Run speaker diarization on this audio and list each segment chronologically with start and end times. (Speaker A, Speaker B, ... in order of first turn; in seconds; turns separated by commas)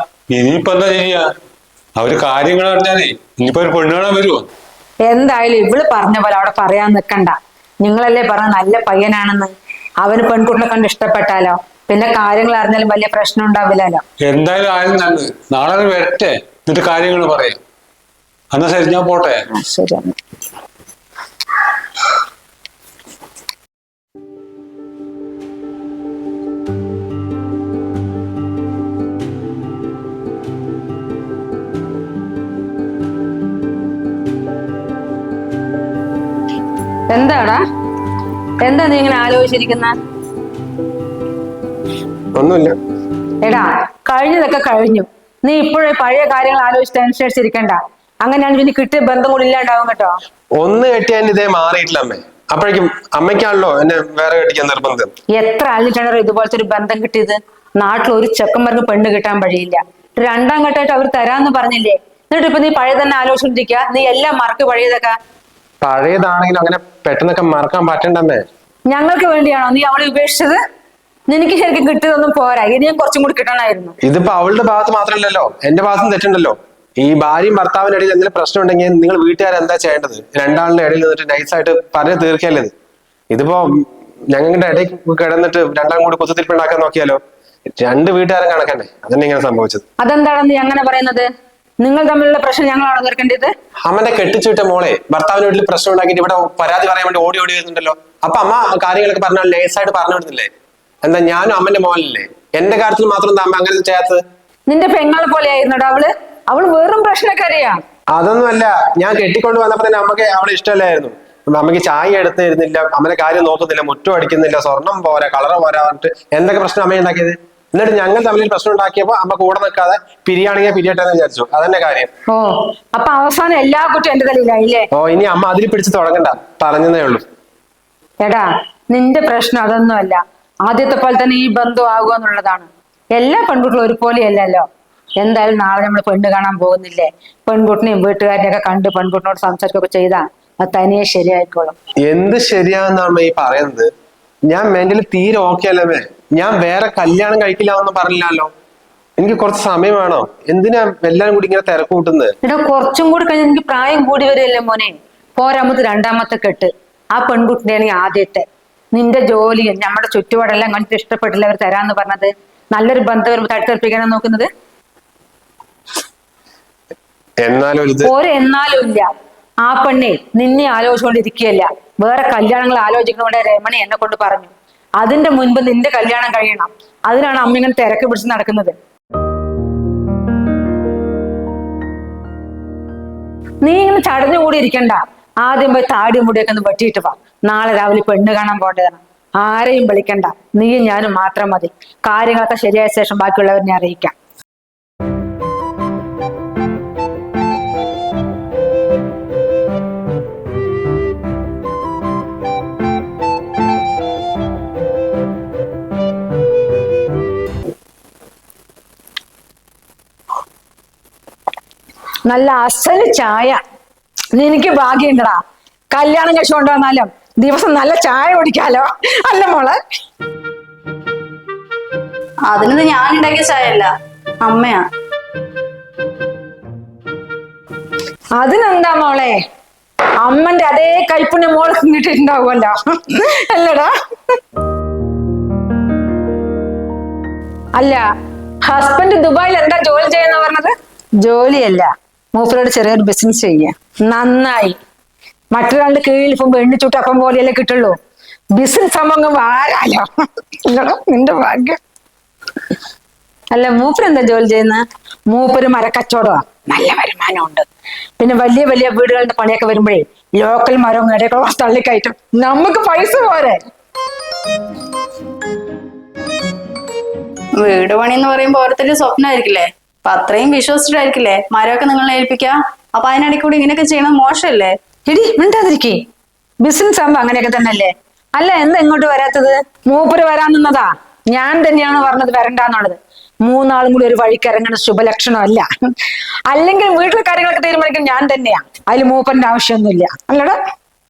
Speaker A: 0.3-1.2, Speaker A: 2.0-4.5, Speaker B: 5.1-14.0, Speaker A: 14.3-17.6, Speaker A: 18.6-19.3, Speaker B: 19.5-20.2, Speaker B: 37.1-37.6, Speaker B: 38.6-40.0, Speaker C: 42.4-42.8, Speaker B: 43.4-50.1, Speaker C: 50.6-55.1, Speaker B: 55.4-65.2, Speaker C: 65.8-68.4, Speaker B: 68.9-70.6, Speaker B: 71.3-74.0, Speaker C: 74.1-82.7, Speaker C: 83.3-87.2, Speaker C: 87.8-89.8, Speaker B: 90.0-91.3, Speaker B: 91.8-93.5, Speaker C: 93.9-100.5, Speaker C: 101.0-104.2, Speaker B: 104.7-107.8, Speaker C: 108.2-122.1, Speaker B: 122.3-124.9, Speaker C: 125.0-127.2, Speaker B: 128.2-134.7, Speaker B: 135.2-141.8, Speaker C: 142.1-143.9, Speaker C: 144.5-148.5, Speaker C: 149.2-152.3, Speaker B: 152.4-164.5, Speaker C: 167.4-168.1, Speaker B: 168.0-169.1, Speaker B: 169.7-178.8, Speaker B: 183.6-194.2, Speaker B: 212.3-213.6, Speaker B: 214.3-215.4, Speaker B: 215.9-219.8, Speaker D: 222.5-223.9, Speaker D: 224.4-224.8, Speaker B: 228.4-229.4, Speaker B: 230.2-233.9, Speaker B: 237.8-238.1, Speaker B: 238.6-240.7, Speaker B: 241.2-244.8, Speaker B: 245.5-248.0, Speaker B: 248.6-250.1, Speaker B: 250.7-251.8, Speaker B: 253.5-257.7, Speaker B: 258.2-263.6, Speaker D: 267.6-274.8, Speaker B: 275.1-276.0, Speaker B: 276.6-285.7, Speaker B: 286.5-290.6